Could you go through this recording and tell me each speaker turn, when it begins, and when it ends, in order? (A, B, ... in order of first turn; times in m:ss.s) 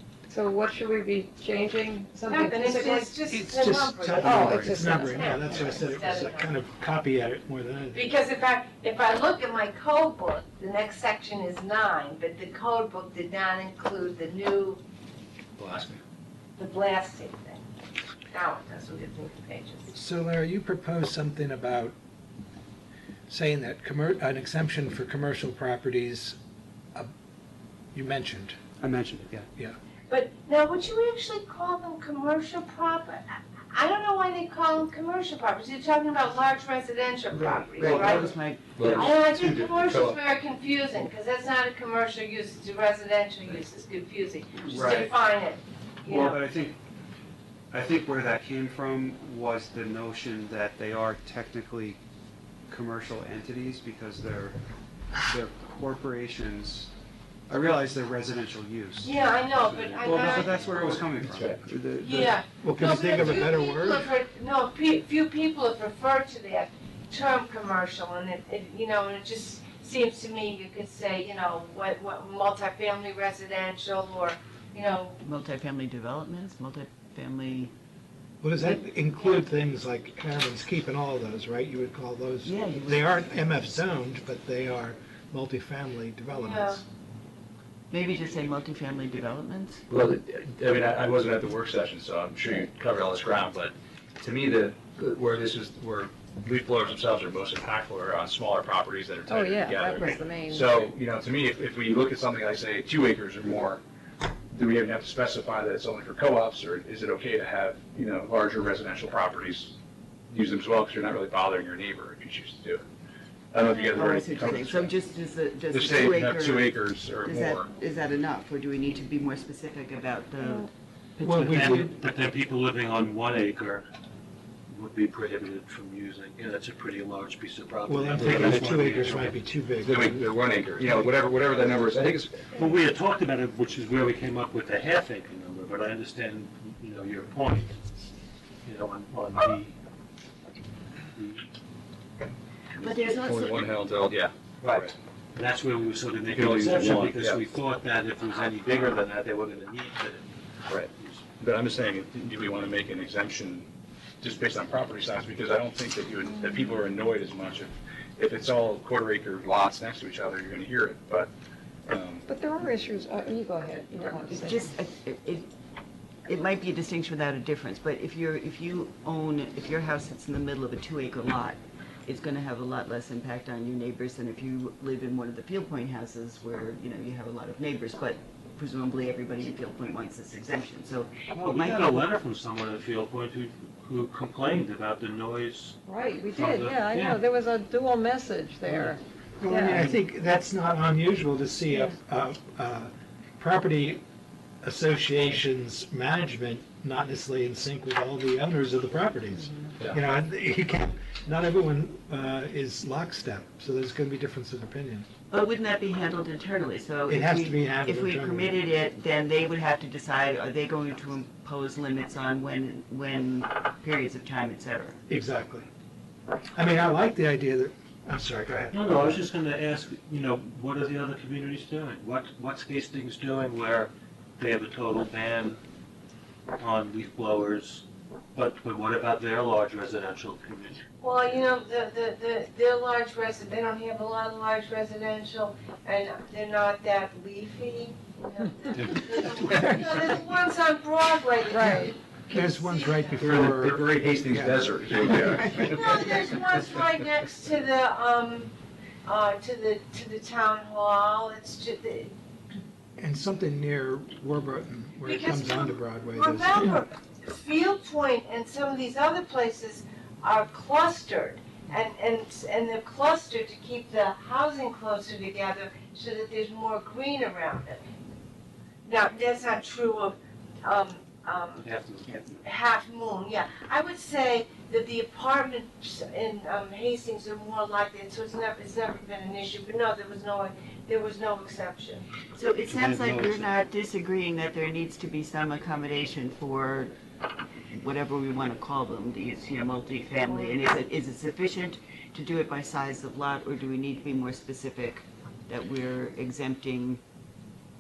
0:00.3-0:03.2 A
0:02.3-0:06.6 B
0:03.3-0:08.0 C
0:04.2-0:05.6 A
0:07.9-0:14.8 B
0:15.6-0:16.0 D
0:16.6-0:17.6 B
0:18.3-0:19.9 B
0:19.9-0:22.0 C
0:23.3-0:26.4 C
0:27.9-0:28.6 C
0:28.8-0:29.5 E
0:30.1-0:38.4 B
0:37.3-0:39.2 F
0:37.8-0:38.2 D
0:38.8-0:40.2 D
0:38.9-0:46.4 B
0:44.6-0:45.2 E
0:46.0-0:46.8 E
0:47.7-0:52.0 E
0:52.7-0:54.6 E
0:55.2-0:56.9 E
0:57.5-1:02.4 E
0:59.0-1:01.0 B
1:01.2-1:01.6 D
1:02.0-1:15.2 B
1:02.6-1:04.1 C
1:15.2-1:17.7 F
1:18.4-1:26.8 C
1:22.4-1:23.8 F
1:26.3-1:26.8 B
1:27.9-1:29.8 F
1:29.9-1:43.8 D
1:39.3-1:40.8 A
1:44.5-1:49.8 D
1:50.3-1:52.8 D
1:53.5-1:54.9 D
1:53.9-2:00.7 F
1:55.7-1:57.7 D
2:01.2-2:03.9 G
2:01.2-2:01.9 C
2:04.7-2:09.4 G
2:07.9-2:10.3 C
2:08.2-2:08.6 D
2:09.8-2:12.4 D
2:12.6-2:17.8 G
2:18.6-2:19.7 G
2:21.2-2:21.5 G
2:22.8-2:23.7 F
2:22.8-2:24.9 D
2:24.6-2:30.3 G
2:26.3-2:27.4 D
2:30.7-2:33.7 D
2:31.0-2:31.2 G
2:34.2-2:41.3 D
2:41.9-2:42.2 D
2:42.3-2:44.7 A
2:44.3-2:45.5 F
2:46.3-3:02.0 F
3:01.3-3:05.8 G
3:05.9-3:09.9 A
3:06.3-3:07.2 G
3:08.7-3:09.0 G
3:09.4-3:14.0 C
3:14.6-3:25.1 C
3:25.3-3:35.0 F
3:27.1-3:28.6 C
3:35.1-3:35.7 C
3:36.6-3:39.2 C
3:38.7-3:45.6 G
3:46.6-3:50.8 G
3:51.0-4:03.4 B
4:01.5-4:02.0 A
4:02.3-4:04.7 C
4:03.2-4:06.0 D
4:05.4-4:08.5 B
4:09.0-4:12.1 B
4:13.0-4:16.8 C
4:15.0-4:27.8 B
4:28.8-4:31.7 B
4:31.6-4:32.2 G
4:32.2-4:42.1 B
4:42.3-4:46.9 F
4:42.7-4:43.5 G
4:47.7-4:57.0 F